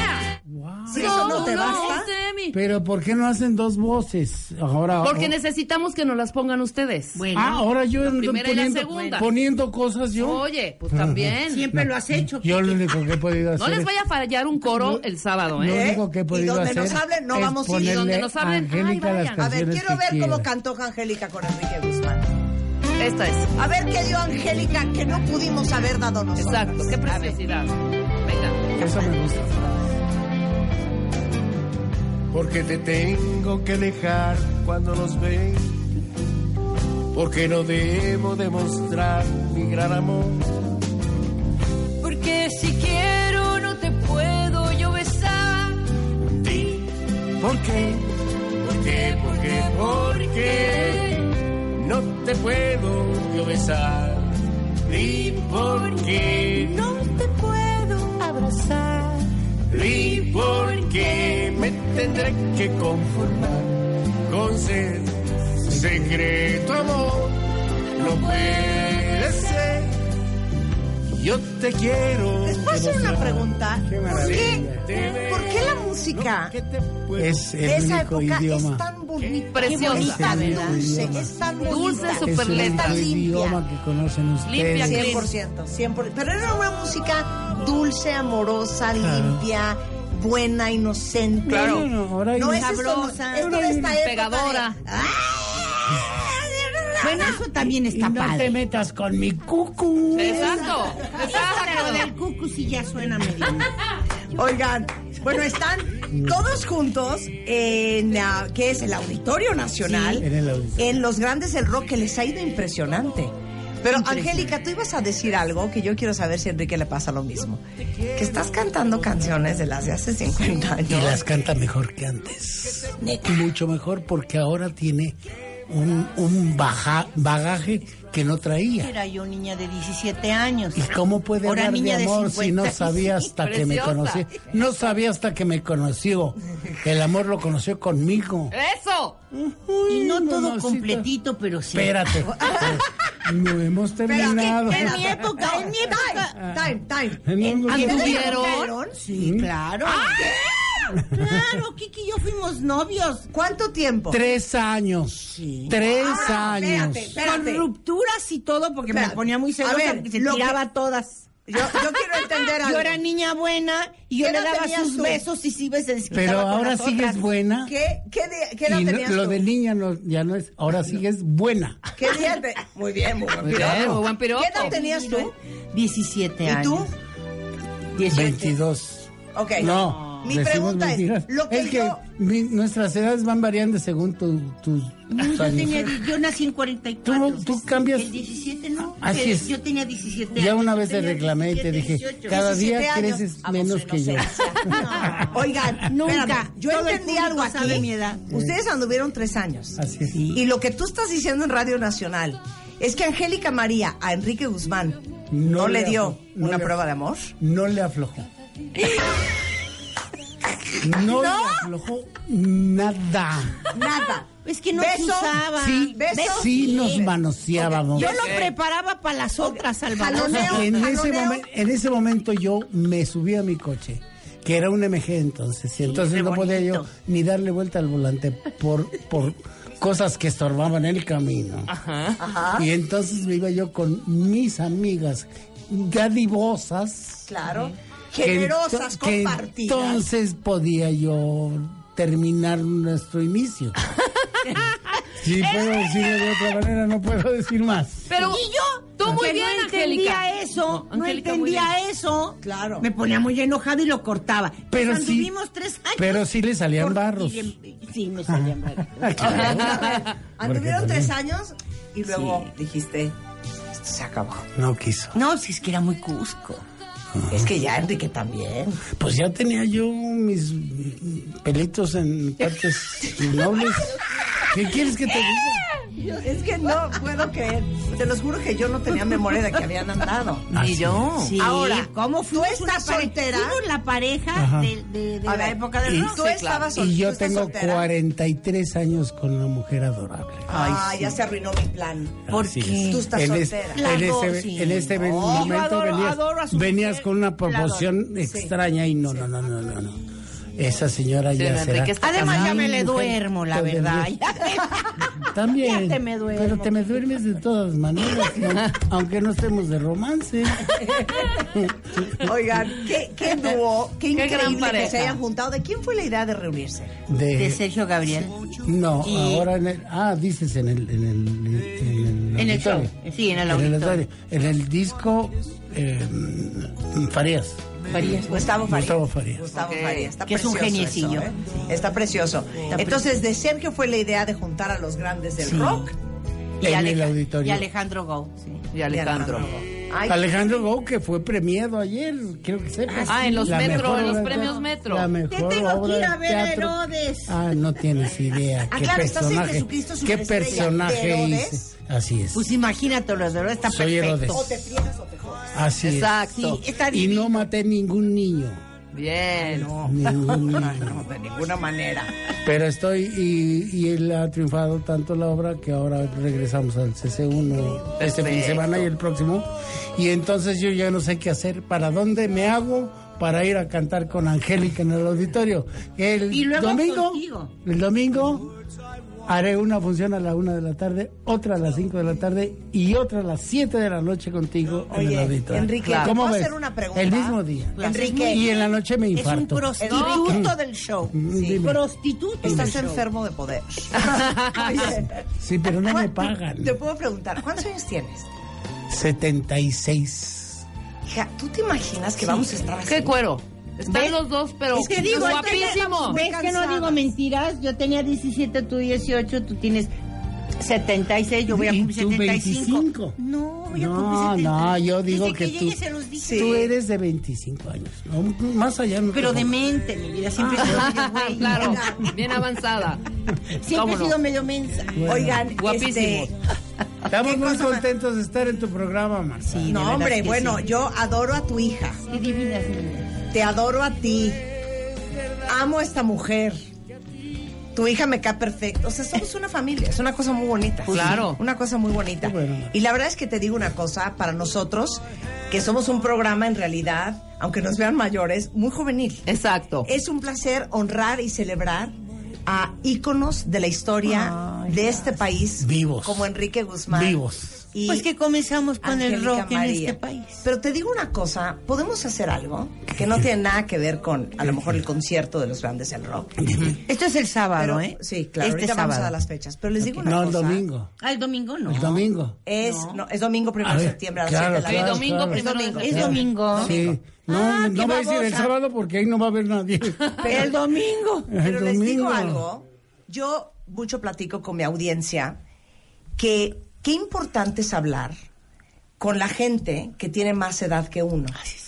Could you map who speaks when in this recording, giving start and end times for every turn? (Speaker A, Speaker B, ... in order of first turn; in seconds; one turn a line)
Speaker A: 0.5-1.4
Speaker B: 0.9-2.1
Speaker C: 0.9-2.3
Speaker D: 1.1-2.0
Speaker A: 2.5-5.3
Speaker C: 5.0-7.2
Speaker E: 7.1-7.6
Speaker A: 7.3-13.9
Speaker C: 8.1-9.2
Speaker E: 8.9-9.2
Speaker C: 10.2-11.6
Speaker E: 11.5-12.8
Speaker C: 13.6-15.8
Speaker A: 14.6-15.0
Speaker A: 15.5-20.5
Speaker B: 15.6-18.1
Speaker C: 17.9-19.2
Speaker B: 19.4-22.3
Speaker C: 23.0-23.5
Speaker B: 23.6-27.4
Speaker C: 26.4-27.7
Speaker C: 28.2-28.6
Speaker A: 28.8-29.6
Speaker F: 32.3-35.8
Speaker F: 37.1-40.6
Speaker D: 42.1-45.7
Speaker F: 46.4-46.9
Speaker F: 47.4-48.0
Speaker F: 48.6-51.2
Speaker F: 51.7-54.3
Speaker F: 54.8-56.9
Speaker E: 56.6-59.3
Speaker F: 59.7-67.4
Speaker A: 65.7-66.2
Speaker F: 67.9-70.0
Speaker F: 71.2-73.2
Speaker B: 72.4-74.6
Speaker A: 72.6-74.9
Speaker F: 74.2-77.6
Speaker B: 75.3-76.5
Speaker A: 77.2-78.8
Speaker B: 77.6-83.6
Speaker F: 79.2-79.5
Speaker C: 79.5-80.3
Speaker E: 79.6-80.7
Speaker A: 80.0-81.3
Speaker C: 81.7-83.0
Speaker A: 82.2-85.3
Speaker C: 84.5-85.3
Speaker B: 84.8-95.2
Speaker A: 89.0-89.4
Speaker A: 91.5-94.0
Speaker C: 91.5-91.8
Speaker E: 92.6-93.1
Speaker C: 93.9-94.7
Speaker E: 95.2-95.5
Speaker E: 96.1-98.5
Speaker A: 97.8-100.7
Speaker C: 100.2-102.0
Speaker B: 100.2-100.8
Speaker E: 101.0-103.7
Speaker B: 104.3-117.6
Speaker A: 106.1-106.4
Speaker A: 110.1-111.0
Speaker E: 113.9-114.3
Speaker B: 118.1-121.2
Speaker A: 120.9-125.2
Speaker A: 125.7-128.9
Speaker E: 128.8-130.9
Speaker A: 130.8-138.5
Speaker E: 131.4-133.3
Speaker C: 133.4-134.2
Speaker C: 138.5-139.2
Speaker A: 139.3-141.1
Speaker E: 139.9-142.0
Speaker A: 141.7-145.1
Speaker B: 142.3-142.8
Speaker B: 144.1-149.0
Speaker E: 144.1-146.3
Speaker A: 147.2-148.2
Speaker E: 147.6-153.3
Speaker C: 147.8-148.6
Speaker A: 149.1-149.5
Speaker B: 149.9-150.3
Speaker A: 151.0-151.4
Speaker B: 153.3-154.2
Speaker A: 154.1-157.2
Speaker E: 155.3-155.7
Speaker B: 155.7-157.7
Speaker E: 157.2-161.4
Speaker B: 158.9-160.6
Speaker B: 161.5-163.0
Speaker E: 162.5-167.2
Speaker B: 164.2-165.2
Speaker A: 166.1-167.7
Speaker B: 167.7-169.4
Speaker A: 168.7-171.8
Speaker B: 172.0-175.3
Speaker C: 173.4-174.8
Speaker A: 173.7-174.0
Speaker E: 174.5-176.9
Speaker B: 176.4-176.9
Speaker E: 177.9-178.5
Speaker A: 178.1-186.1
Speaker B: 179.3-182.0
Speaker E: 185.1-192.5
Speaker A: 187.0-188.2
Speaker A: 189.0-189.5
Speaker A: 190.3-194.4
Speaker B: 192.3-194.6
Speaker E: 194.6-195.3
Speaker B: 195.2-199.8
Speaker E: 195.9-198.2
Speaker A: 198.3-198.6
Speaker A: 199.8-200.2
Speaker E: 200.1-200.4
Speaker B: 200.3-205.0
Speaker A: 205.3-206.7
Speaker B: 205.5-207.3
Speaker A: 207.4-208.3
Speaker A: 210.8-213.7
Speaker B: 211.0-211.6
Speaker B: 213.7-218.5
Speaker E: 214.3-217.0
Speaker A: 215.6-218.2
Speaker E: 217.9-220.7
Speaker C: 218.1-218.5
Speaker B: 219.4-221.4
Speaker A: 220.4-231.7
Speaker E: 225.8-226.9
Speaker C: 231.7-232.2
Speaker B: 232.2-232.7
Speaker A: 232.6-237.3
Speaker B: 237.3-240.0
Speaker A: 238.2-243.8
Speaker A: 245.2-248.1
Speaker C: 248.1-248.4
Speaker E: 248.2-259.2
Speaker C: 249.0-251.7
Speaker B: 252.4-252.9
Speaker A: 254.7-255.3
Speaker A: 256.0-257.6
Speaker A: 258.3-261.1
Speaker B: 259.2-263.1
Speaker E: 262.1-262.4
Speaker B: 263.7-264.5
Speaker A: 264.6-265.1
Speaker E: 265.1-266.6
Speaker A: 267.2-267.5
Speaker B: 267.3-268.8
Speaker A: 268.9-273.9
Speaker A: 274.5-275.6
Speaker B: 276.1-280.5
Speaker A: 280.5-281.2
Speaker C: 280.5-281.3
Speaker E: 281.2-286.3
Speaker B: 281.4-283.6
Speaker A: 284.4-284.7
Speaker B: 285.2-287.9
Speaker A: 285.9-286.1
Speaker C: 286.2-286.7
Speaker A: 286.7-291.2
Speaker B: 290.5-292.2
Speaker E: 292.3-293.1
Speaker A: 292.3-300.0
Speaker B: 292.9-294.0
Speaker E: 293.7-297.9
Speaker B: 295.1-295.6
Speaker B: 298.2-298.5
Speaker A: 300.6-304.2
Speaker C: 301.3-302.7
Speaker E: 302.0-304.8
Speaker A: 305.2-310.7
Speaker E: 305.6-307.0
Speaker B: 310.8-311.4
Speaker A: 311.6-312.3
Speaker B: 312.2-316.9
Speaker C: 314.1-315.2
Speaker A: 317.1-317.6
Speaker E: 317.4-319.5
Speaker A: 318.6-322.9
Speaker E: 322.4-324.0
Speaker A: 323.4-327.6
Speaker E: 327.9-328.4
Speaker B: 328.2-335.9
Speaker A: 328.6-329.4
Speaker C: 329.5-330.1
Speaker E: 330.3-331.3
Speaker E: 332.7-333.1
Speaker E: 335.4-335.9
Speaker A: 336.6-337.7
Speaker E: 336.6-338.6
Speaker C: 338.7-339.5
Speaker B: 338.9-340.2
Speaker A: 340.1-352.5
Speaker E: 342.9-343.7
Speaker C: 343.1-345.1
Speaker E: 345.3-347.4
Speaker B: 348.7-351.7
Speaker E: 350.5-350.8
Speaker E: 352.3-354.4
Speaker A: 353.7-354.4
Speaker B: 354.3-355.5
Speaker A: 355.5-358.6
Speaker C: 355.8-356.5
Speaker E: 356.4-357.4
Speaker C: 358.9-359.7
Speaker B: 359.4-362.1
Speaker A: 359.8-361.0
Speaker A: 362.4-378.5
Speaker C: 368.0-368.8
Speaker E: 376.3-377.5
Speaker A: 379.2-389.8
Speaker B: 384.9-388.4
Speaker C: 385.8-386.1
Speaker E: 387.8-388.4
Speaker E: 389.1-393.0
Speaker B: 389.8-390.4
Speaker C: 389.9-390.4
Speaker A: 391.1-391.9
Speaker B: 391.3-391.6
Speaker B: 392.4-395.2
Speaker A: 392.4-392.9
Speaker C: 393.9-395.0
Speaker A: 395.4-396.8
Speaker B: 395.8-398.3
Speaker A: 398.9-400.6
Speaker B: 401.1-403.1
Speaker C: 402.9-406.2
Speaker B: 403.8-404.1
Speaker E: 403.9-404.2
Speaker E: 404.7-409.9
Speaker B: 404.8-407.0
Speaker E: 410.6-416.7
Speaker A: 411.5-413.2
Speaker A: 413.7-415.8
Speaker B: 416.2-416.7
Speaker A: 416.3-419.6
Speaker E: 419.1-421.8
Speaker C: 420.4-423.1
Speaker B: 421.4-422.1
Speaker E: 423.6-425.1
Speaker C: 423.6-424.1
Speaker A: 425.0-425.5
Speaker B: 425.1-426.3
Speaker C: 425.5-426.3
Speaker A: 427.1-429.7
Speaker B: 427.1-427.8
Speaker E: 429.4-430.7
Speaker B: 429.6-432.0
Speaker E: 432.0-433.2
Speaker B: 433.3-434.4
Speaker B: 435.4-436.6
Speaker B: 437.7-449.3
Speaker E: 440.9-441.3
Speaker C: 440.9-441.4
Speaker A: 442.2-442.7
Speaker C: 449.3-449.9
Speaker B: 449.8-451.9
Speaker B: 452.4-457.2
Speaker E: 454.1-455.0
Speaker A: 455.6-456.3
Speaker A: 456.9-457.7
Speaker B: 457.7-458.1
Speaker E: 457.9-460.4
Speaker B: 458.8-466.4
Speaker A: 462.9-463.2
Speaker A: 464.4-464.8
Speaker A: 466.4-466.7
Speaker E: 466.8-469.1
Speaker B: 467.6-470.6
Speaker A: 469.8-470.9
Speaker E: 471.0-473.0
Speaker A: 471.7-472.4
Speaker B: 472.4-476.8
Speaker A: 473.6-480.2
Speaker C: 474.6-476.2
Speaker E: 475.8-478.5
Speaker B: 480.2-480.6
Speaker E: 480.3-481.3
Speaker A: 481.3-482.4
Speaker B: 481.4-485.4
Speaker B: 486.2-488.1
Speaker B: 489.0-491.4